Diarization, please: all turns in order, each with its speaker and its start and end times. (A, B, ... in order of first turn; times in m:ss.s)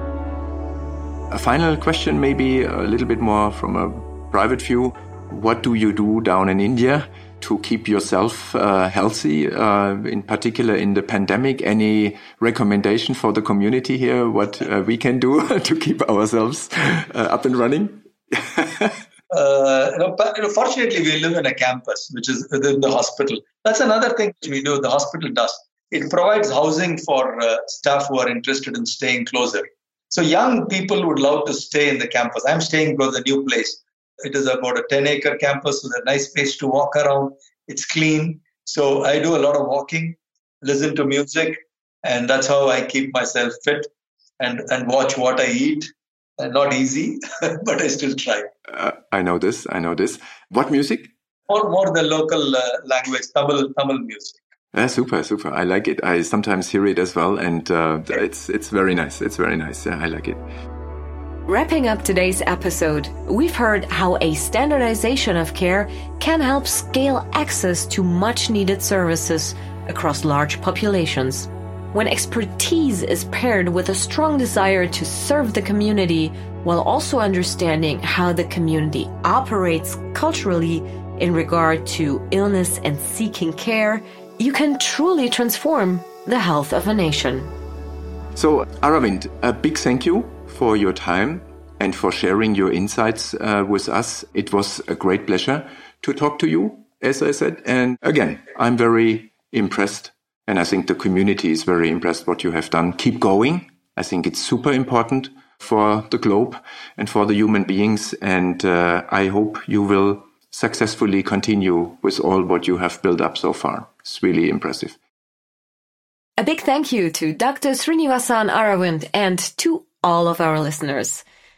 0:01.3-0:19.0 A
0:19.3-0:48.5 B
0:48.7-0:51.1 A
0:51.5-0:54.4 B
0:54.7-1:00.4 A
1:01.5-1:27.5 C
1:28.3-1:55.0 A
1:56.4-2:01.2 C